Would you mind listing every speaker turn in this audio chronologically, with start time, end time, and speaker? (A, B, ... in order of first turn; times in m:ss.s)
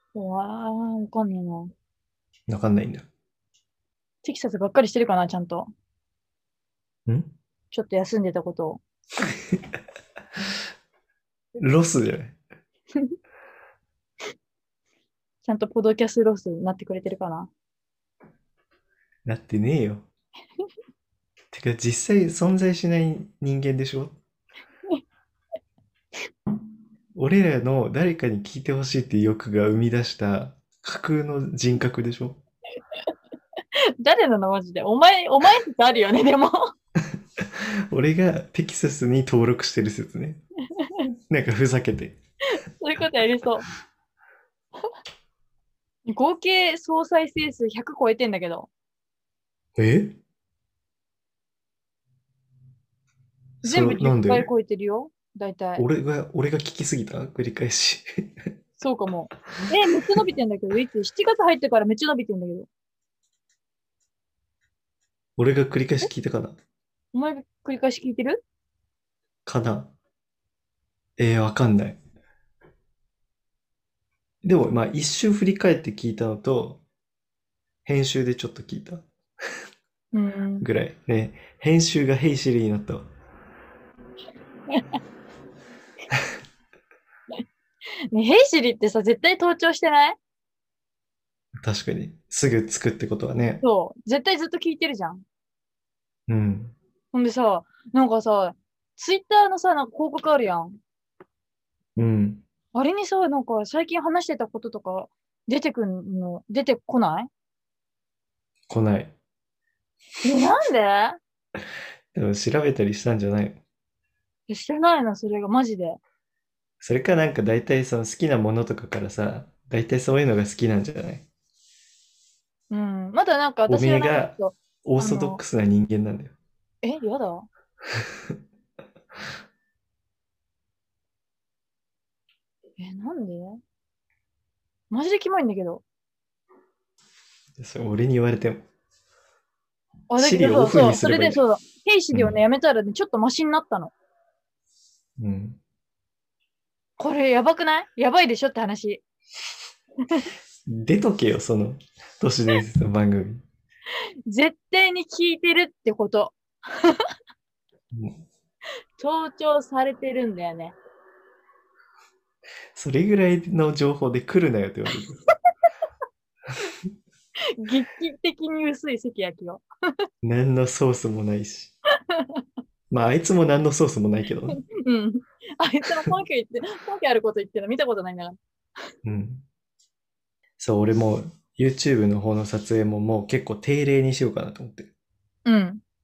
0:00.1-0:01.7 A
0:02.5-0:03.0 B
0:04.2-0:05.7 A
0:07.1-0:07.3 B
0:07.7-0:08.8 A
0:09.3-0:09.6 B
0:11.6-0:12.4 B
0:15.4-0:17.5 A
0:19.2-0:20.1 B
0:21.5-0:24.2 B
0:27.1-0:32.4 B
0:34.0-0:36.7 A
0:37.1-0:40.4 B
0:40.8-0:41.1 A
0:41.3-0:42.2 B
0:42.5-0:43.6 A
0:46.1-0:48.7 A
0:49.8-0:50.2 B
0:53.6-0:54.5 B
0:53.6-0:55.8 A
0:55.8-0:58.5 B
0:58.8-1:02.7 A
1:05.4-1:06.6 B
1:07.1-1:08.4 A
1:09.4-1:09.9 B
1:11.2-1:12.0 B
1:14.4-1:16.8 B
1:17.8-1:19.0 B
1:20.1-1:20.7 A
1:20.6-1:23.1 B
1:24.7-1:25.0 A
1:28.1-1:30.2 A
1:31.6-1:33.6 B
1:33.6-1:35.2 A
1:36.3-1:36.7 B
1:37.1-1:40.8 A
1:42.0-1:42.4 B
1:42.7-1:47.3 A
1:48.7-1:49.1 B
1:50.2-1:51.2 A
1:52.1-1:53.6 B
1:54.5-1:56.0 A
1:56.8-2:01.2 B
2:02.7-2:05.4 A
2:03.7-2:06.3 B
2:06.8-2:07.5 A
2:07.9-2:08.3 B
2:12.8-2:13.6 A
2:14.9-2:15.8 A
2:17.6-2:18.6 B
2:20.1-2:23.9 A
2:20.2-2:21.4 B
2:22.1-2:22.4 B
2:25.2-2:25.6 B
2:27.0-2:29.0 A
2:30.7-2:33.4 B
2:34.3-2:37.0 A
2:37.9-2:38.2 B
2:39.0-2:40.8 A
2:42.7-2:45.2 B
2:47.5-2:49.6 A
2:50.2-2:51.7 B
2:52.9-2:54.6 B
2:54.6-2:58.4 A
2:59.0-2:59.4 B
3:00.6-3:04.9 B
3:05.4-3:05.8 A